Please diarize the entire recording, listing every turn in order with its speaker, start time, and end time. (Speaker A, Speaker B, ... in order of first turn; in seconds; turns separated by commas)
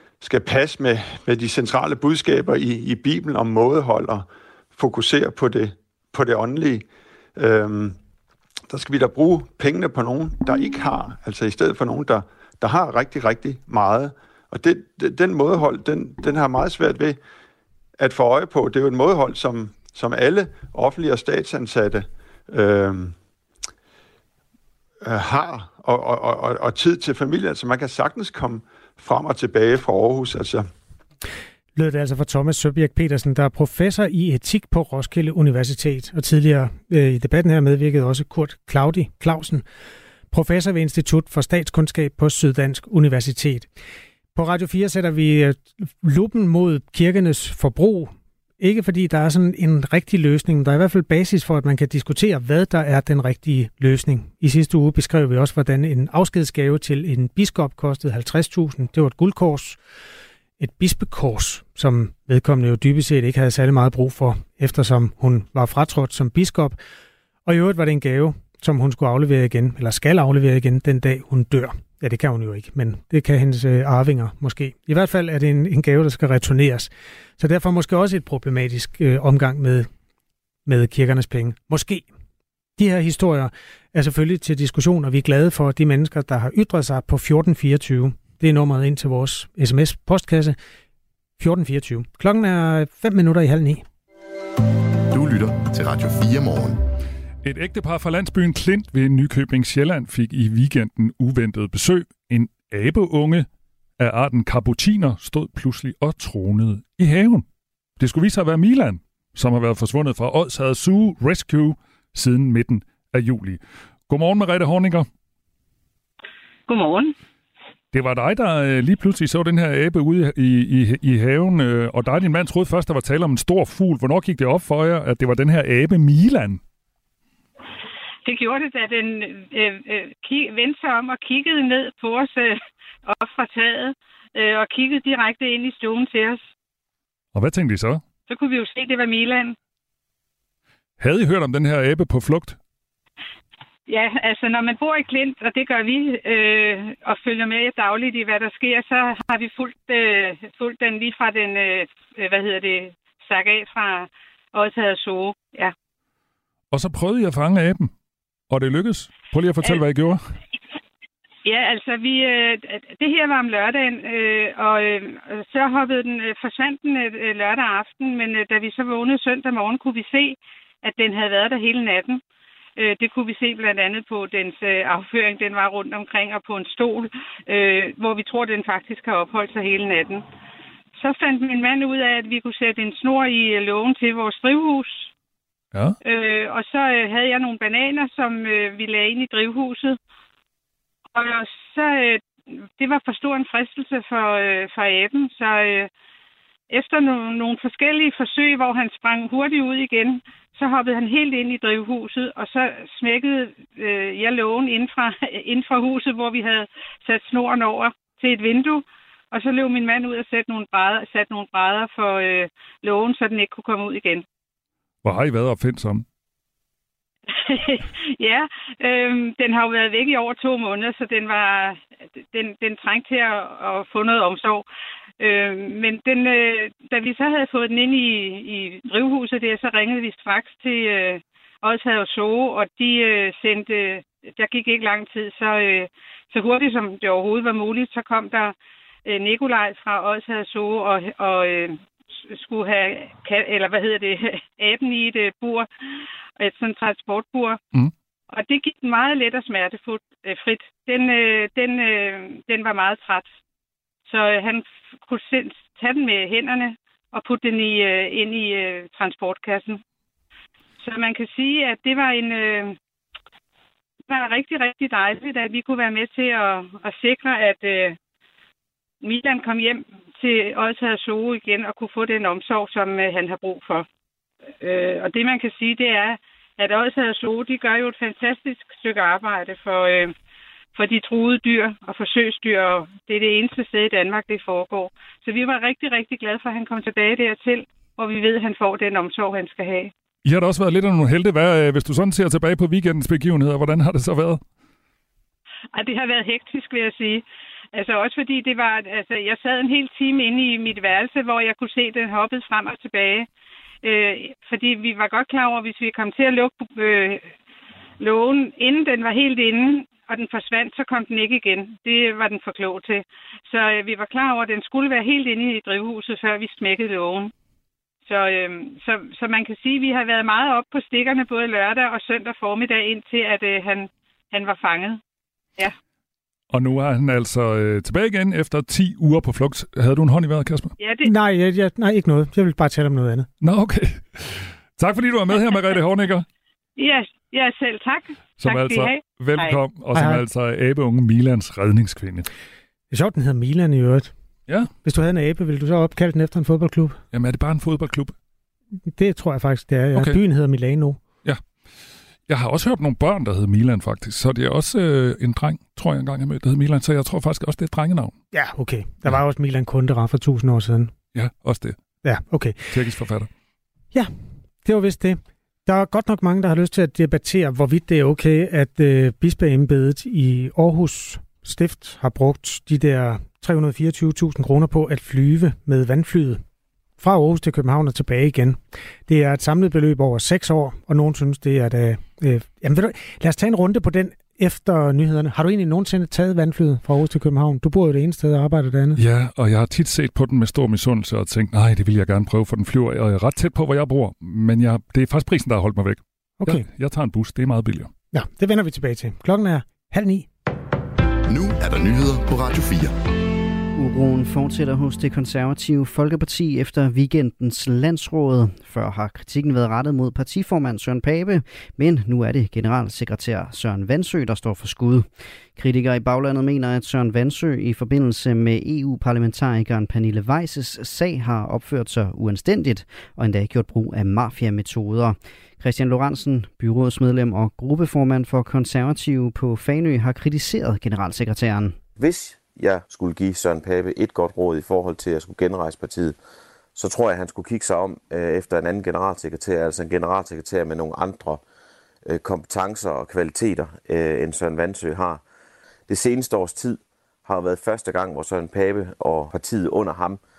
Speaker A: 0.2-8.0, Speaker A: 8.7-17.2, Speaker A: 18.0-23.1, Speaker A: 25.0-30.7, Speaker B: 31.8-39.6, Speaker B: 40.3-43.7, Speaker B: 44.3-59.8, Speaker B: 60.6-66.8, Speaker B: 67.5-79.9, Speaker B: 80.7-82.0, Speaker B: 82.8-90.5, Speaker B: 91.4-93.8, Speaker C: 95.1-96.8, Speaker D: 97.4-103.5, Speaker D: 104.0-107.4, Speaker D: 108.0-115.1, Speaker E: 116.7-117.1, Speaker D: 117.9-126.6, Speaker E: 128.2-136.4, Speaker D: 137.3-138.0, Speaker E: 138.3-139.5, Speaker D: 141.0-142.6, Speaker E: 143.9-155.7, Speaker D: 156.7-157.9, Speaker D: 158.5-160.2, Speaker E: 161.4-172.2, Speaker E: 172.8-180.2, Speaker E: 181.0-185.1, Speaker E: 186.0-190.0, Speaker E: 191.1-195.9, Speaker E: 196.7-214.2, Speaker D: 215.0-216.0, Speaker E: 217.3-224.6, Speaker E: 225.2-238.5, Speaker E: 239.1-245.7, Speaker E: 246.4-247.6, Speaker E: 248.3-253.3, Speaker E: 254.1-259.8, Speaker E: 260.8-262.8, Speaker E: 264.1-268.0, Speaker E: 269.0-273.9, Speaker E: 274.6-280.1, Speaker E: 280.7-289.9, Speaker D: 290.2-294.4, Speaker E: 295.7-303.3, Speaker E: 303.8-307.3, Speaker E: 308.0-317.3, Speaker E: 318.1-325.0, Speaker D: 326.5-330.7, Speaker E: 330.8-331.1, Speaker B: 331.0-333.3, Speaker D: 333.4-336.2, Speaker E: 336.8-339.6, Speaker D: 338.4-342.3, Speaker B: 339.9-340.2, Speaker B: 342.9-344.1, Speaker B: 344.8-347.0, Speaker D: 347.1-348.1, Speaker B: 348.9-351.0, Speaker D: 352.3-358.1, Speaker B: 358.3-360.9, Speaker D: 361.1-361.8, Speaker B: 362.0-362.7, Speaker D: 362.7-363.3, Speaker B: 364.6-376.4, Speaker B: 377.0-389.0, Speaker D: 389.0-397.9, Speaker B: 396.4-396.6, Speaker B: 398.1-400.3, Speaker C: 401.3-402.9, Speaker F: 403.7-431.8, Speaker G: 432.0-436.1, Speaker G: 436.7-441.4, Speaker G: 442.1-445.2, Speaker G: 445.9-450.2